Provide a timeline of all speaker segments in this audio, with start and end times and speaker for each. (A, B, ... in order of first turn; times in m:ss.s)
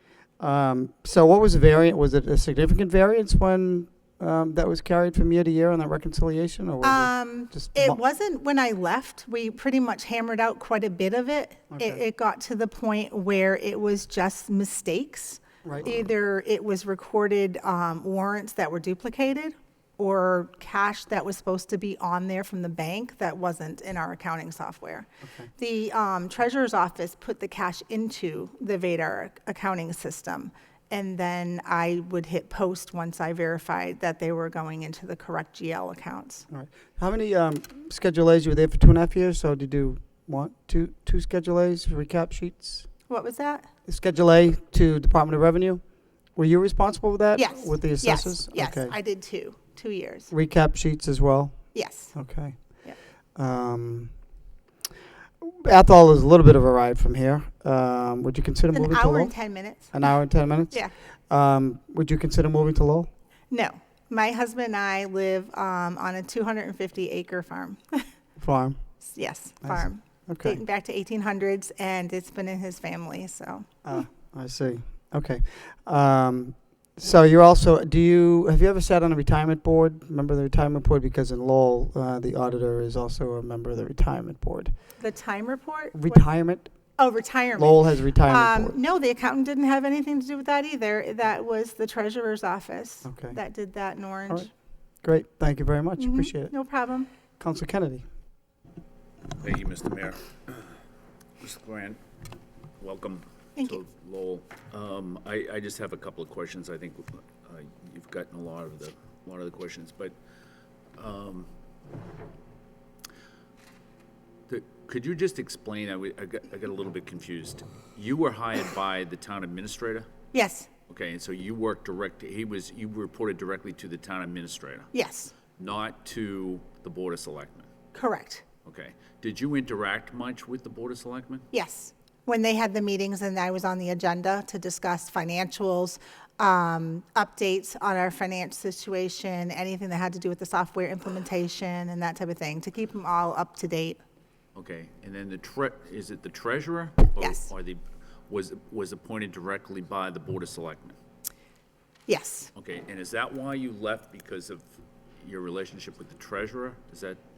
0:00.4-0:08.0 A
0:06.8-0:36.4 B
0:11.7-0:12.0 A
0:15.6-0:16.0 A
0:25.2-0:25.5 A
0:36.5-0:42.9 A
0:43.1-0:43.7 B
0:43.9-0:45.8 A
0:46.4-0:49.0 A
0:47.4-0:50.3 B
0:50.3-0:52.8 A
0:51.7-0:52.1 B
0:53.4-0:54.1 A
0:55.4-0:59.3 A
0:58.7-1:00.1 B
0:59.9-1:03.1 A
1:03.5-1:08.0 B
1:08.4-1:08.8 A
1:09.0-1:14.1 B
1:09.6-1:10.6 A
1:13.8-1:24.7 A
1:25.0-1:26.2 B
1:25.9-1:26.7 A
1:27.0-1:34.5 B
1:27.6-1:28.8 A
1:33.0-1:33.4 A
1:35.0-1:36.5 A
1:36.0-1:37.1 B
1:37.4-1:38.1 A
1:39.4-1:40.8 C
1:41.4-1:42.0 C
1:42.8-1:50.2 C
1:51.0-1:51.5 C
1:54.5-2:00.1 C
2:00.3-2:00.7 B
2:00.9-2:04.9 C
2:04.9-2:05.3 B
2:05.6-2:07.7 C
2:07.9-2:08.4 B
2:08.6-2:11.5 C
2:11.5-2:24.0 B
2:24.6-2:31.0 C
2:27.2-2:27.5 B
2:32.1-2:32.5 B
2:32.6-2:34.7 C
2:35.2-2:37.2 C